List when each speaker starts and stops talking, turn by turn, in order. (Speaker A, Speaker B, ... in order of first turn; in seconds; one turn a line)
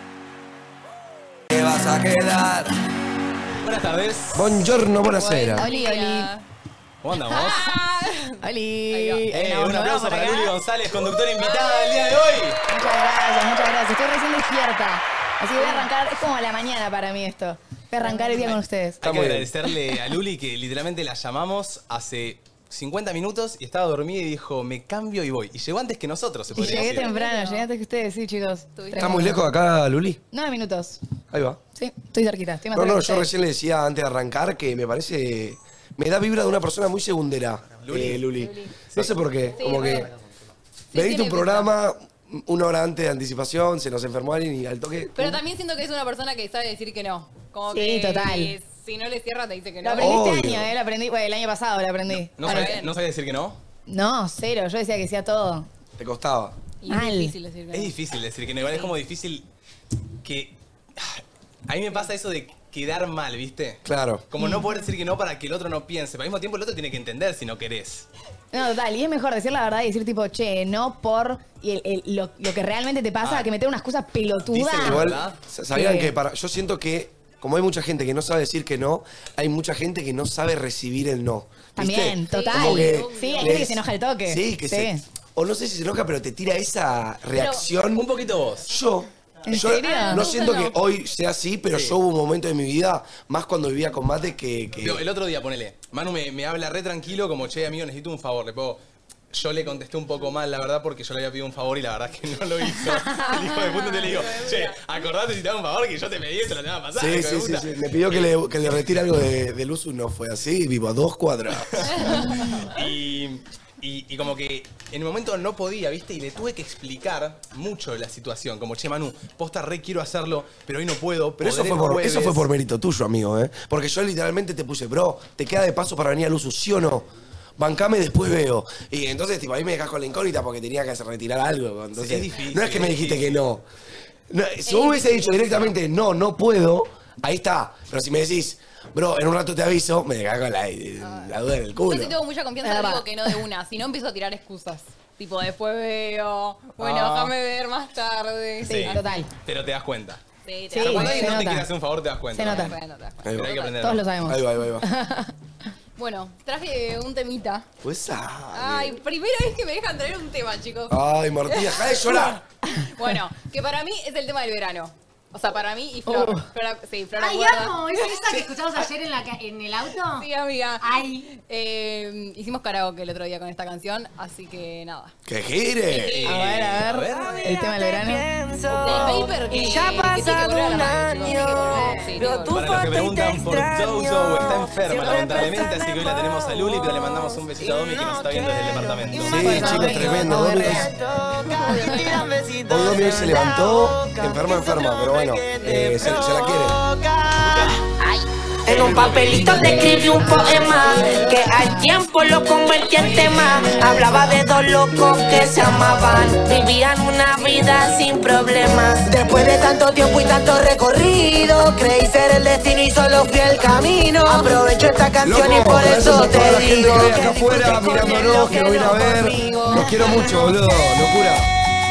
Speaker A: 1.5-2.7
Speaker B: 3.6-4.6
Speaker A: 4.3-5.7
Speaker C: 5.1-6.4
Speaker D: 5.4-6.3
Speaker B: 7.0-7.7
Speaker C: 7.3-9.3
Speaker D: 8.4-10.5
Speaker B: 9.3-12.6
Speaker C: 11.4-12.1
Speaker D: 12.7-19.0
Speaker C: 15.6-15.9
Speaker C: 18.0-18.6
Speaker B: 19.0-27.0
Speaker A: 19.0-19.5
Speaker D: 26.5-29.4
Speaker C: 26.5-27.6
Speaker C: 28.8-29.3
Speaker A: 29.0-30.2
Speaker D: 30.3-31.0
Speaker A: 31.3-31.6
Speaker D: 31.7-33.3
Speaker A: 32.7-40.1
Speaker B: 37.8-38.3
Speaker C: 38.4-38.7
Speaker B: 38.9-39.1
Speaker C: 39.5-40.1
Speaker C: 40.9-41.7
Speaker A: 40.9-45.4
Speaker C: 45.1-50.2
Speaker D: 47.7-48.5
Speaker D: 49.8-52.7
Speaker A: 50.0-50.7
Speaker B: 52.3-53.6
Speaker C: 52.4-52.9
Speaker D: 53.9-55.7
Speaker A: 56.0-56.5
Speaker C: 56.8-57.9
Speaker D: 56.9-57.3
Speaker B: 57.7-59.5
Speaker C: 58.6-58.9
Speaker B: 60.2-68.1
Speaker A: 63.8-64.2
Speaker D: 64.4-64.7
Speaker D: 68.5-75.1
Speaker B: 73.2-73.5
Speaker B: 74.5-75.4
Speaker A: 74.7-88.1
Speaker D: 75.7-76.1
Speaker D: 81.8-85.0
Speaker C: 82.3-83.6
Speaker C: 87.3-87.7
Speaker B: 87.9-88.7
Speaker A: 88.6-95.0
Speaker D: 89.5-90.3
Speaker C: 89.5-90.8
Speaker B: 94.8-98.8
Speaker B: 99.3-109.0
Speaker C: 103.1-104.8
Speaker A: 107.0-112.1
Speaker B: 111.7-122.5
Speaker C: 111.9-112.6
Speaker A: 121.4-133.6
Speaker B: 131.9-133.4
Speaker A: 134.3-142.2
Speaker C: 134.6-135.7
Speaker C: 141.0-149.0
Speaker D: 142.6-143.4
Speaker B: 146.8-147.3
Speaker D: 148.6-149.3
Speaker B: 148.7-150.2
Speaker C: 150.4-151.4
Speaker D: 150.7-151.7
Speaker B: 150.7-152.7
Speaker D: 152.3-152.7
Speaker C: 152.4-153.8
Speaker A: 153.2-153.6
Speaker B: 153.3-154.1
Speaker D: 153.8-155.3
Speaker A: 154.2-154.9
Speaker C: 156.0-157.7
Speaker A: 157.8-159.0
Speaker C: 158.5-168.4
Speaker A: 160.9-162.4
Speaker D: 166.1-166.5
Speaker E: 167.1-170.3
Speaker C: 170.1-175.1
Speaker E: 170.8-171.3
Speaker A: 175.3-176.4
Speaker C: 175.9-176.4
Speaker B: 176.2-177.4
Speaker D: 176.3-178.3
Speaker F: 177.2-219.3
Speaker C: 178.7-182.6
Speaker B: 182.5-189.4
Speaker C: 184.9-185.4
Speaker A: 189.2-190.9
Speaker D: 189.3-190.9
Speaker A: 192.7-196.8
Speaker C: 195.6-195.9
Speaker A: 198.8-199.9
Speaker A: 215.2-221.5
Speaker C: 218.2-220.3
Speaker D: 218.3-219.9
Speaker F: 219.9-220.4